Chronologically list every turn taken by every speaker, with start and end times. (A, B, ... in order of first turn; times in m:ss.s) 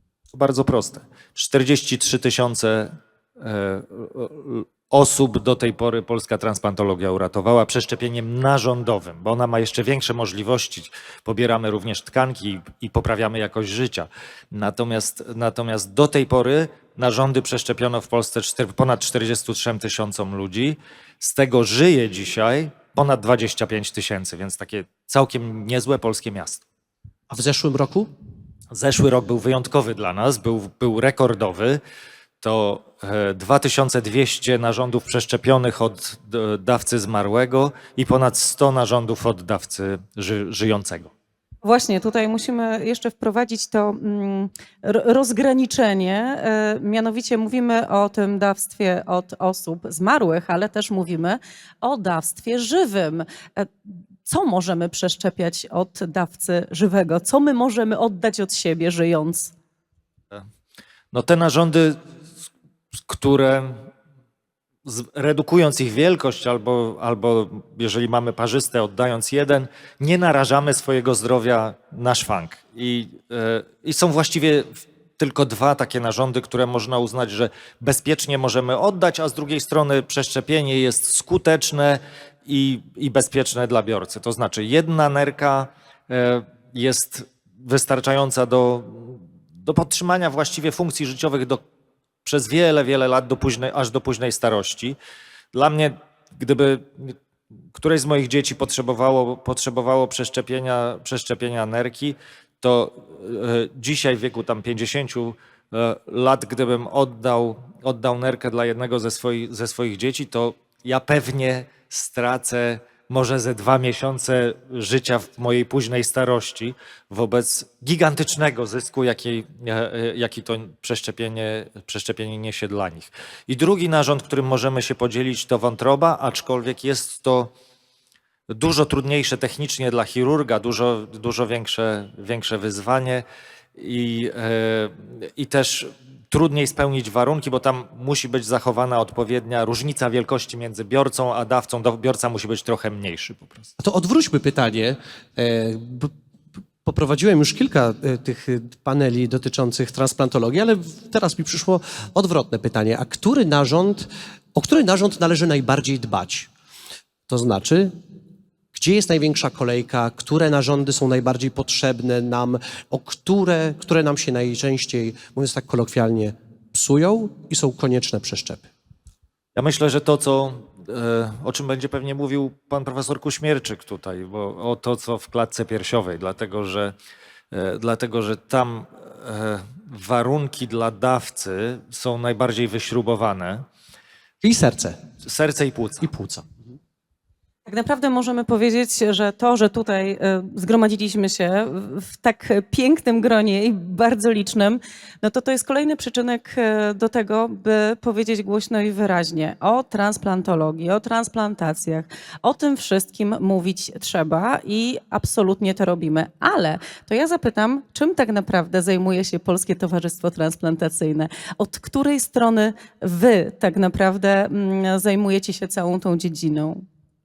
0:00.3-0:26.6 A
0:27.3-0:28.1 B
0:28.7-0:31.8 A
0:32.4-0:41.1 A
0:41.6-0:59.5 C
1:01.1-1:02.0 A
1:03.1-1:03.9 A
1:04.8-1:31.6 A
1:32.2-1:35.0 A
1:35.5-1:37.2 A
1:37.7-2:07.5 A
2:08.5-2:13.2 A
2:13.8-2:23.7 A
2:23.8-2:26.1 B
2:26.8-2:36.5 B
2:37.3-2:37.9 B
2:38.7-2:48.7 B
2:49.6-2:56.9 A
2:57.5-3:03.7 A
3:04.4-3:05.0 B
3:05.2-3:06.1 A
3:06.0-3:06.4 B
3:07.7-3:36.8 C